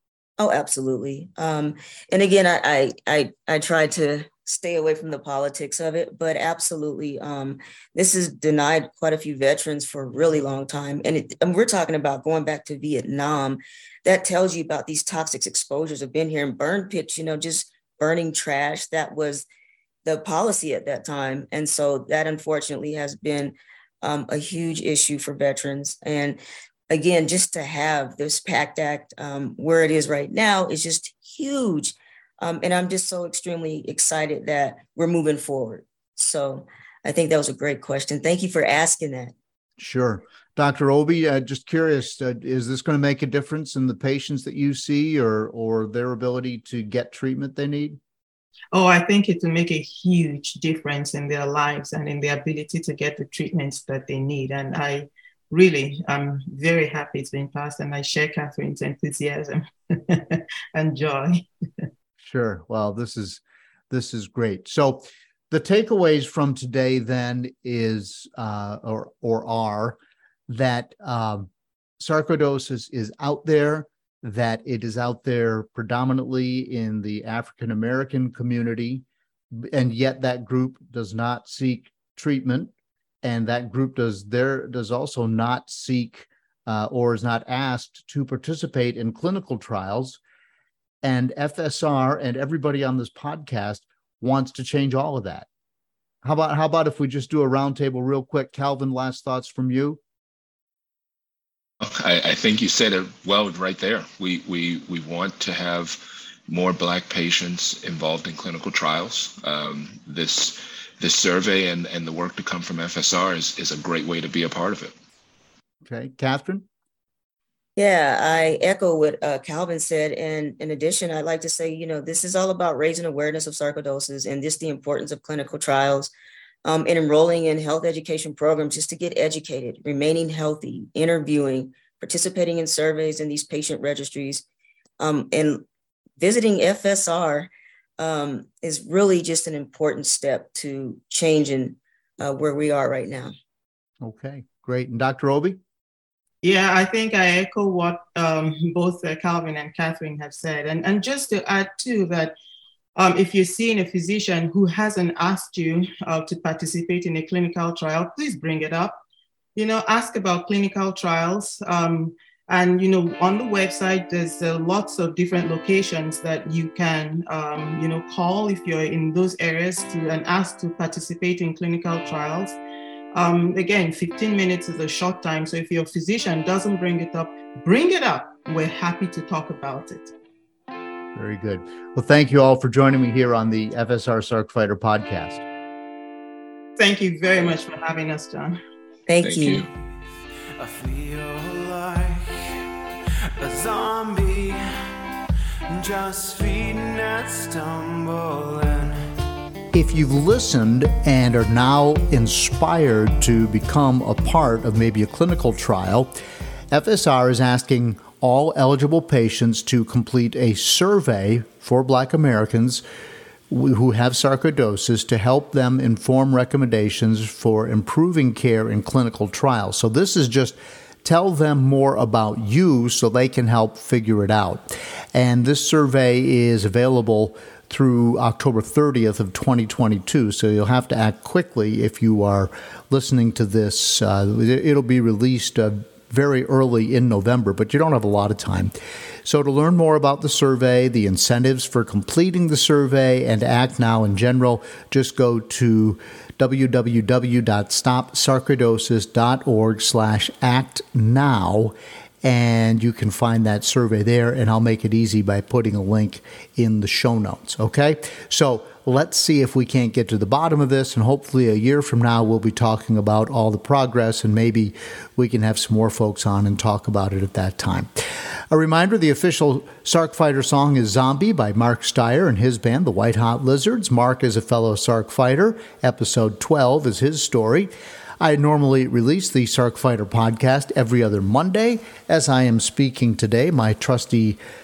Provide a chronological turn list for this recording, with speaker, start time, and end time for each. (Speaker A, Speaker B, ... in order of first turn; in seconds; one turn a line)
Speaker A: 0.4-19.4
Speaker A: 20.0-39.3
Speaker B: 39.8-48.0
Speaker C: 48.7-61.9
Speaker B: 62.2-82.7
Speaker B: 83.2-90.2
Speaker B: 91.0-95.5
Speaker B: 96.2-100.0
Speaker D: 101.8-114.9
Speaker B: 115.8-116.7
Speaker A: 117.8-126.1
Speaker A: 126.6-134.4
Speaker A: 135.0-135.6
Speaker A: 136.2-143.3
Speaker B: 144.0-145.6
Speaker C: 146.4-152.3
Speaker C: 152.9-159.0
Speaker C: 159.5-172.6
Speaker C: 173.1-180.1
Speaker B: 181.1-185.4
Speaker C: 186.8-188.6
Speaker A: 189.1-189.6
Speaker D: 189.2-189.7
Speaker E: 190.6-192.7
Speaker E: 193.4-194.9
Speaker E: 195.7-199.1
Speaker B: 199.7-206.1
Speaker B: 206.7-212.8
Speaker B: 213.5-238.7
Speaker B: 239.2-267.9
Speaker B: 268.5-284.4